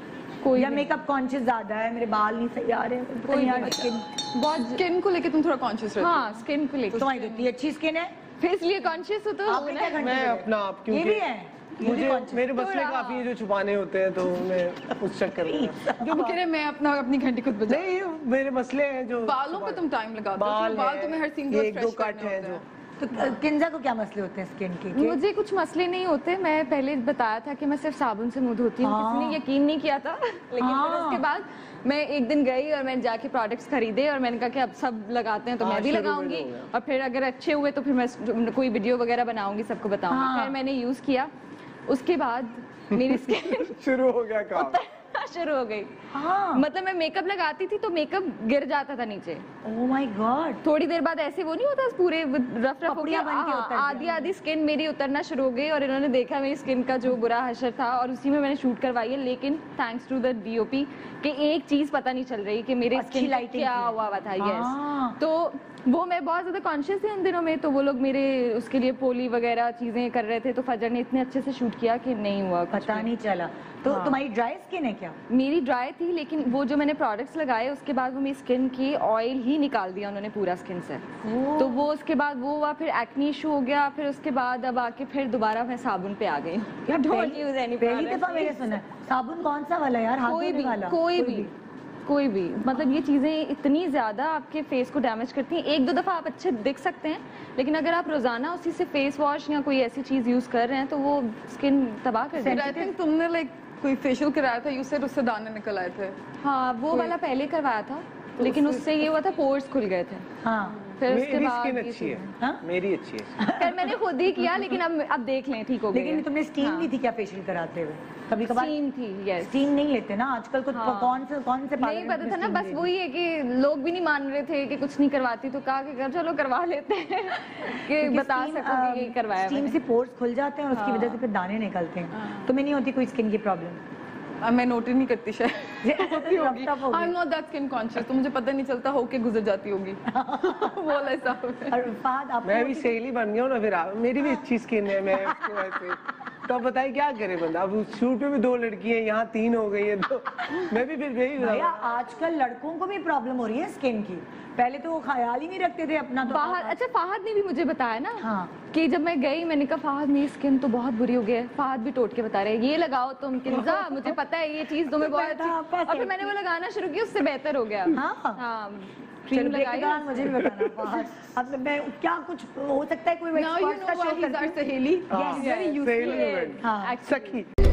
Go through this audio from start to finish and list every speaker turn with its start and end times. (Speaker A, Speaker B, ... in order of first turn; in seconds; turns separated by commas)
Speaker A: 0.4-0.9, Speaker B: 0.5-4.0, Speaker A: 3.2-4.8, Speaker C: 4.7-6.4, Speaker A: 6.0-7.5, Speaker B: 6.9-8.1, Speaker A: 8.4-10.0, Speaker B: 9.4-12.5, Speaker D: 9.9-16.0, Speaker A: 12.5-13.2, Speaker B: 15.4-16.4, Speaker C: 16.0-17.9, Speaker D: 17.7-19.8, Speaker C: 19.2-22.6, Speaker D: 20.4-22.6, Speaker B: 23.0-25.2, Speaker A: 24.9-41.3, Speaker B: 28.8-29.4, Speaker B: 30.6-31.2, Speaker D: 35.6-36.7, Speaker B: 40.1-40.6, Speaker A: 41.9-43.7, Speaker D: 42.9-44.8, Speaker A: 44.5-45.9, Speaker B: 46.1-46.6, Speaker A: 46.5-49.4, Speaker B: 49.6-50.6, Speaker A: 50.6-73.1, Speaker B: 52.9-54.3, Speaker B: 62.9-65.2, Speaker B: 72.7-75.1, Speaker A: 73.8-74.2, Speaker A: 75.3-81.0, Speaker B: 81.2-81.9, Speaker A: 81.6-88.8, Speaker B: 86.9-91.5, Speaker A: 90.2-91.5, Speaker A: 92.0-102.8, Speaker B: 92.7-93.0, Speaker B: 102.3-102.9, Speaker C: 102.5-106.2, Speaker A: 106.4-110.3, Speaker C: 108.4-108.8, Speaker B: 110.4-110.8, Speaker A: 111.0-112.3, Speaker D: 111.0-113.4, Speaker B: 113.4-114.0, Speaker A: 113.5-116.9, Speaker B: 115.9-118.8, Speaker A: 118.3-119.6, Speaker B: 119.4-122.9, Speaker A: 120.7-121.3, Speaker A: 121.8-129.8, Speaker B: 127.9-133.8, Speaker A: 130.7-131.2, Speaker C: 132.1-132.5, Speaker C: 134.4-141.8, Speaker B: 135.8-137.2, Speaker B: 140.1-140.8, Speaker B: 141.7-143.0, Speaker D: 142.4-151.8, Speaker B: 144.2-144.4, Speaker B: 145.1-145.7, Speaker B: 151.4-156.8, Speaker A: 156.3-170.5, Speaker B: 158.2-158.5, Speaker B: 163.5-164.1, Speaker B: 164.9-166.3, Speaker B: 167.9-168.4, Speaker B: 169.3-174.6, Speaker C: 173.3-176.6, Speaker B: 175.1-175.5, Speaker D: 175.1-177.5, Speaker A: 175.3-177.4, Speaker B: 176.6-177.0